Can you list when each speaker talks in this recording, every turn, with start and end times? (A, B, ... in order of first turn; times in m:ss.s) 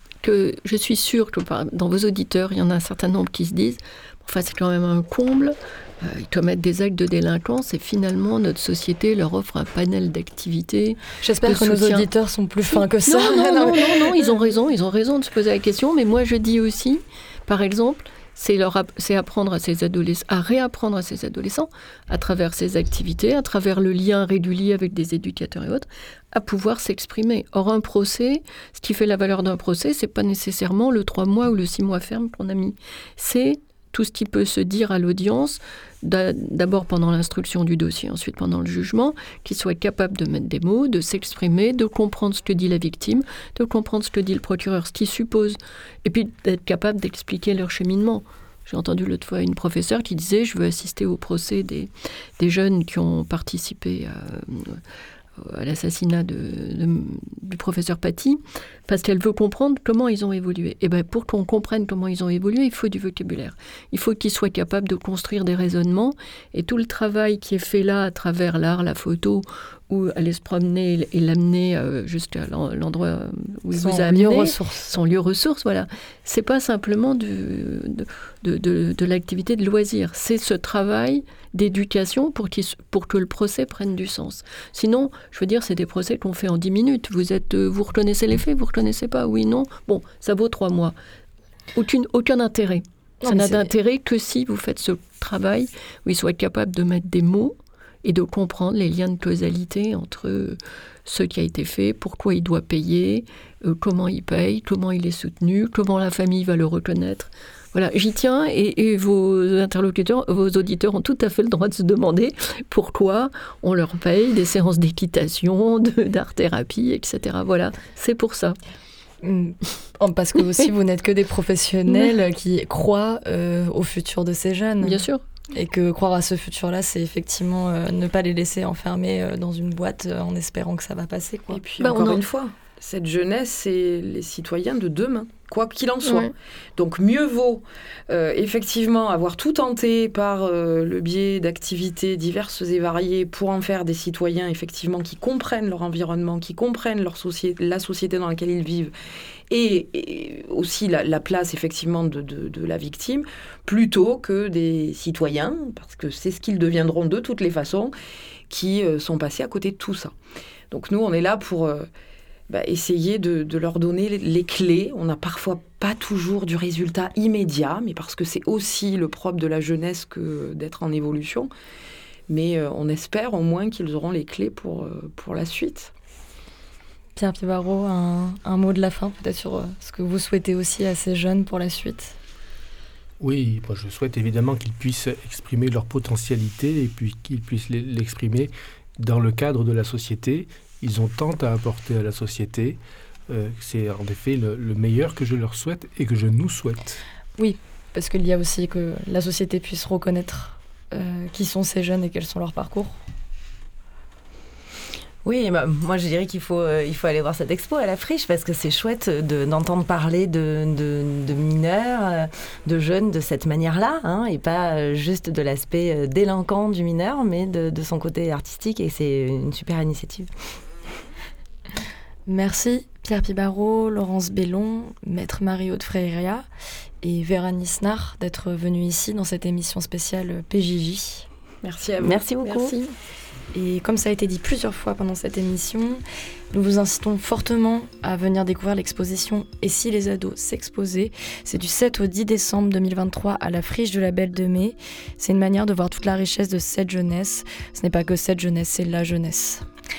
0:00.2-0:12.1 A
0:11.2-0:14.2 B
0:12.7-0:54.8 A
0:55.4-1:31.0 A
1:13.7-1:14.9 B
1:31.7-1:58.6 A
1:33.2-1:33.7 B
1:59.2-2:11.6 B
2:04.8-2:05.2 A
2:11.5-2:28.9 C
2:11.8-2:12.2 A
2:16.0-2:16.3 A
2:29.5-2:37.9 C
2:38.5-2:40.1 C
2:40.7-2:41.9 C
2:42.5-2:51.5 C
2:52.3-2:55.9 C
2:57.2-3:02.2 B
3:03.2-3:17.0 D
3:17.4-3:23.0 B
3:25.2-3:40.3 E
3:42.3-3:46.4 B
3:47.0-3:51.3 B
3:51.6-3:52.2 C
3:52.0-3:52.7 E
3:52.4-3:52.9 A
3:53.5-3:56.0 B
3:56.5-4:09.6 B